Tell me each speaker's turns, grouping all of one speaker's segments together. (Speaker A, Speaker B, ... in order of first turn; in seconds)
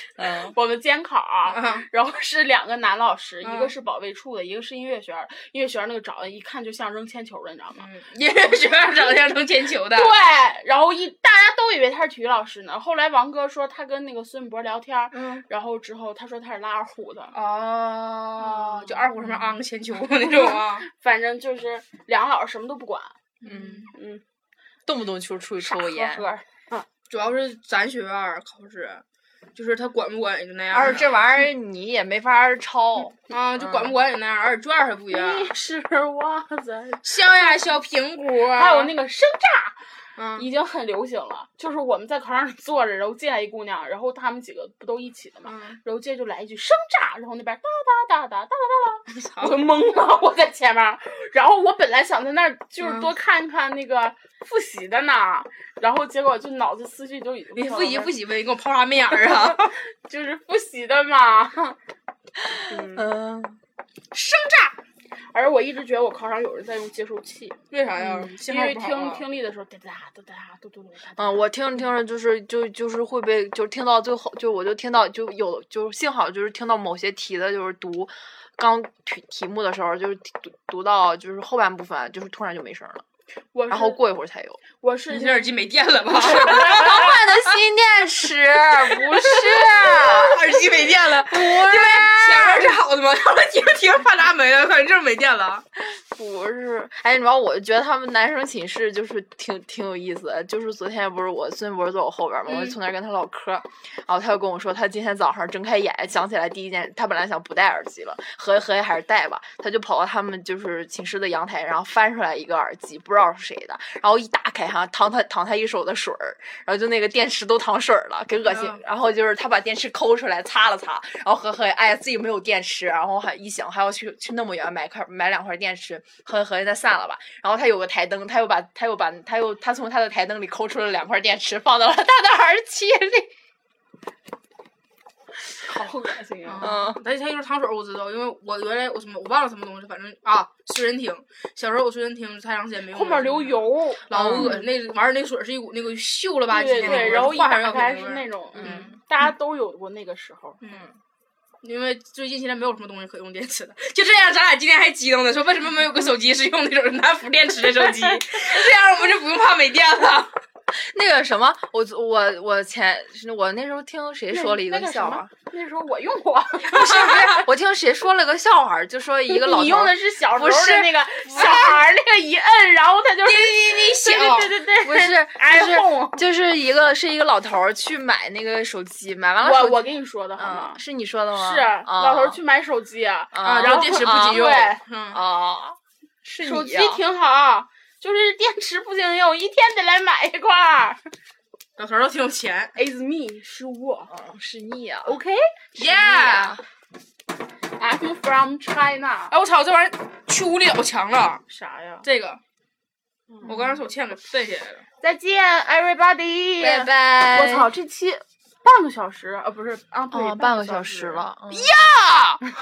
Speaker A: 0.2-0.5, 23.4-23.9, 24.9-26.2, 30.7-33.9, 62.5-63.6, 68.0-68.3, 71.2-83.0, 83.7-84.6, 86.1-92.8, 95.8-133.3, 136.6-137.0, 144.1-144.6, 146.8-147.3, 148.6-148.9, 160.7-165.3, 166.7-171.8, 174.8-182.4, 183.3-184.5, 185.1-187.0, 194.1-195.2, 195.8-196.6, 203.4-203.8, 206.6-207.7, 210.1-211.7
Speaker B: 0.3-7.8, 9.9-17.3, 18.4-19.1, 20.3-23.2, 23.9-24.2, 25.6-26.9, 35.1-37.7, 38.2-39.8, 40.4-58.1, 59.1-61.8, 62.7-63.0, 64.1-64.7, 65.3-67.6, 68.3-71.4, 83.5-84.0, 84.8-85.5, 135.6-136.7, 142.9-144.5, 146.5-150.6, 157.8-158.2, 164.3-167.4, 169.3-176.2, 179.4-180.8, 181.3-184.8, 186.4-191.0, 192.8-194.1, 195.0-195.4, 197.8-199.3, 201.5-202.1, 205.0-211.2
Speaker C: 1.5-1.9, 3.4-3.7, 7.8-10.1, 17.3-20.9, 23.4-23.9, 27.1-29.0, 29.5-31.1, 33.3-35.5, 37.0-38.9, 40.2-40.5, 45.4-45.8, 49.1-49.6, 52.8-53.1, 57.5-59.7, 67.7-69.2, 85.1-87.5, 88.9-95.6, 102.5-102.8, 118.4-118.8, 136.4-148.9, 150.6-150.9, 151.6-160.3, 166.7-167.3, 173.2-174.6, 183.4-185.2, 191.8-192.7, 195.8-196.6, 199.3-201.4, 202.0-202.4, 203.4-204.8, 211.5-212.4